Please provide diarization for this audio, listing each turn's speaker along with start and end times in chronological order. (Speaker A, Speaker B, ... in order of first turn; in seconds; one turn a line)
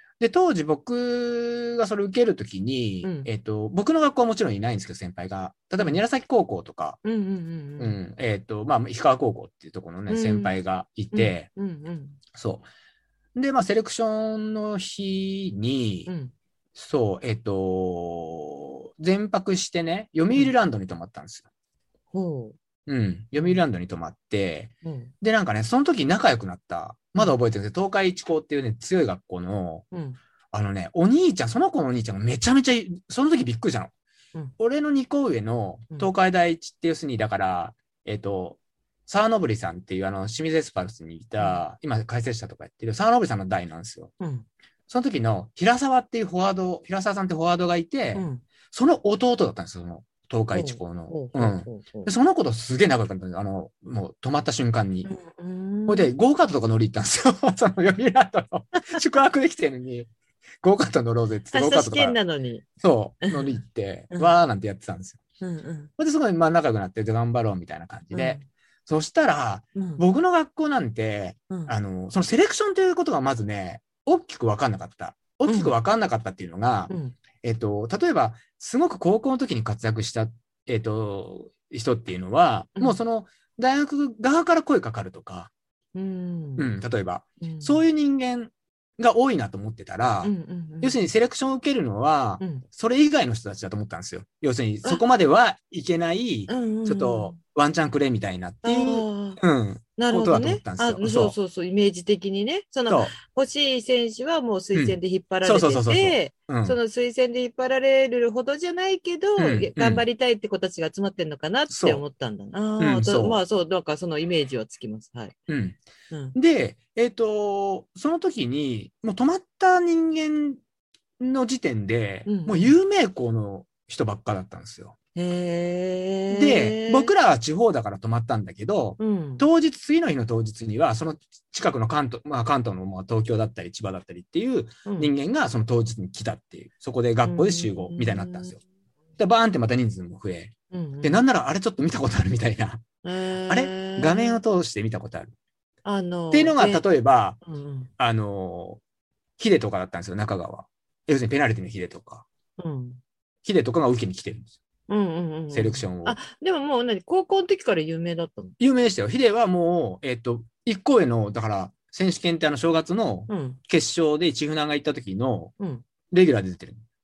Speaker A: 0.2-7.0
Speaker B: 3.0-3.3
Speaker B: 7.0-8.0
Speaker A: 7.8-11.5
Speaker B: 10.1-10.6
Speaker B: 11.1-12.2
Speaker A: 12.3-12.7
Speaker A: 13.3-16.1
Speaker B: 16.1-16.3
Speaker A: 16.7-21.4
Speaker B: 22.1-22.6
Speaker A: 22.9-29.9
Speaker B: 23.3-23.6
Speaker B: 24.8-25.1
Speaker B: 29.9-30.2
Speaker A: 30.5-33.9
Speaker A: 34.6-44.1
Speaker B: 44.2-44.5
Speaker A: 44.9-55.1
Speaker B: 48.1-48.4
Speaker B: 50.5-52.1
Speaker B: 55.0-56.1
Speaker A: 55.9-60.1
Speaker A: 60.6-62.1
Speaker B: 61.5-62.6
Speaker A: 62.8-65.2
Speaker B: 63.2-63.6
Speaker B: 65.4-65.9
Speaker A: 66.0-85.5
Speaker B: 68.1-68.4
Speaker B: 69.8-70.0
Speaker B: 75.5-75.7
Speaker B: 76.9-77.2
Speaker B: 85.9-86.7
Speaker A: 86.6-101.3
Speaker B: 87.4-87.8
Speaker B: 90.2-91.0
Speaker B: 92.4-92.6
Speaker B: 96.5-97.4
Speaker B: 98.6-99.4
Speaker B: 100.0-115.3
Speaker A: 102.9-103.1
Speaker A: 104.7-106.8
Speaker A: 109.4-110.0
Speaker A: 111.7-112.0
Speaker A: 112.8-113.4
Speaker A: 115.5-115.8
Speaker B: 116.1-116.4
Speaker A: 116.3-120.6
Speaker A: 121.2-125.0
Speaker B: 122.2-122.8
Speaker B: 125.1-127.1
Speaker A: 126.3-138.6
Speaker B: 129.0-129.4
Speaker B: 134.8-135.1
Speaker B: 137.2-138.5
Speaker A: 139.2-142.8
Speaker B: 140.7-141.2
Speaker B: 143.0-144.4
Speaker A: 143.5-145.3
Speaker B: 145.8-146.8
Speaker A: 146.3-147.4
Speaker B: 147.4-147.9
Speaker A: 148.0-148.8
Speaker A: 149.4-152.2
Speaker B: 152.6-153.0
Speaker A: 153.4-154.5
Speaker B: 154.9-158.6
Speaker A: 155.5-156.2
Speaker A: 158.6-165.5
Speaker B: 163.3-163.6
Speaker B: 165.6-165.8
Speaker A: 166.1-166.8